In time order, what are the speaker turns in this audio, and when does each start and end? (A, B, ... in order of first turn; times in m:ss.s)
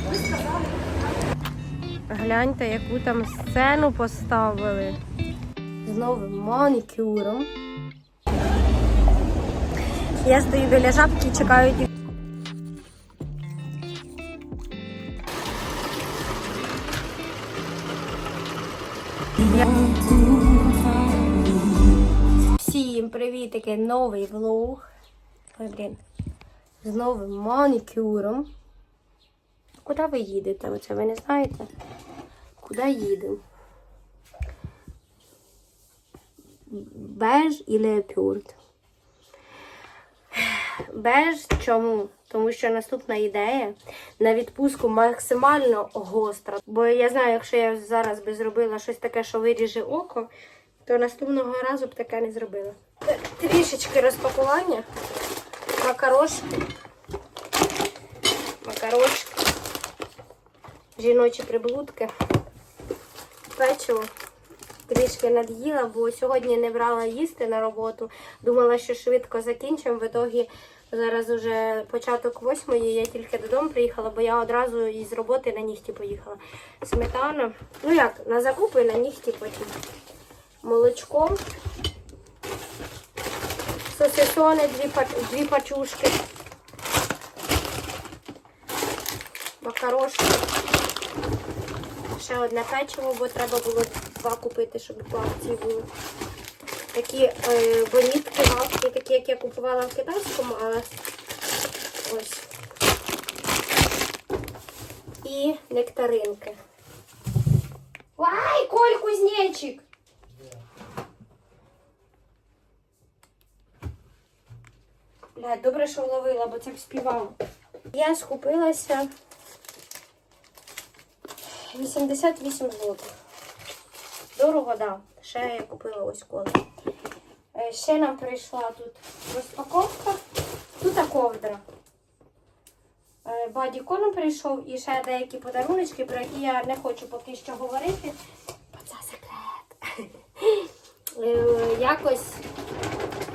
0:02.1-0:05.0 A
0:05.8-0:07.5 A
0:10.2-0:11.9 A
0:19.4-0:19.7 A
0:22.6-0:24.8 A
0:25.5-0:26.0 A
0:26.8-0:28.5 A
0:29.8-0:31.7 A
0:32.6-0:33.4 A
0:36.7-0:38.6 A
0:40.3-0:50.3 A
0:50.8-0:54.8 A
0:55.8-0:56.4 A
0:58.6-0:59.4 A
1:01.0-1:02.1 A
1:03.5-1:04.1 A
1:04.9-1:19.7 A
1:20.6-1:21.4 A
1:23.9-1:26.2 A
1:29.6-1:30.4 A
1:32.1-1:35.8 A
1:36.9-1:40.9 A
1:42.0-1:42.5 A
1:45.2-1:46.6 A
1:48.2-1:49.8 A
1:55.4-1:57.4 A
1:57.9-1:59.1 A
2:01.7-2:03.1 A
2:04.3-2:06.6 A
2:07.5-2:10.2 A
2:10.8-2:11.6 A
2:13.2-2:18.2 A
2:18.7-2:22.4 A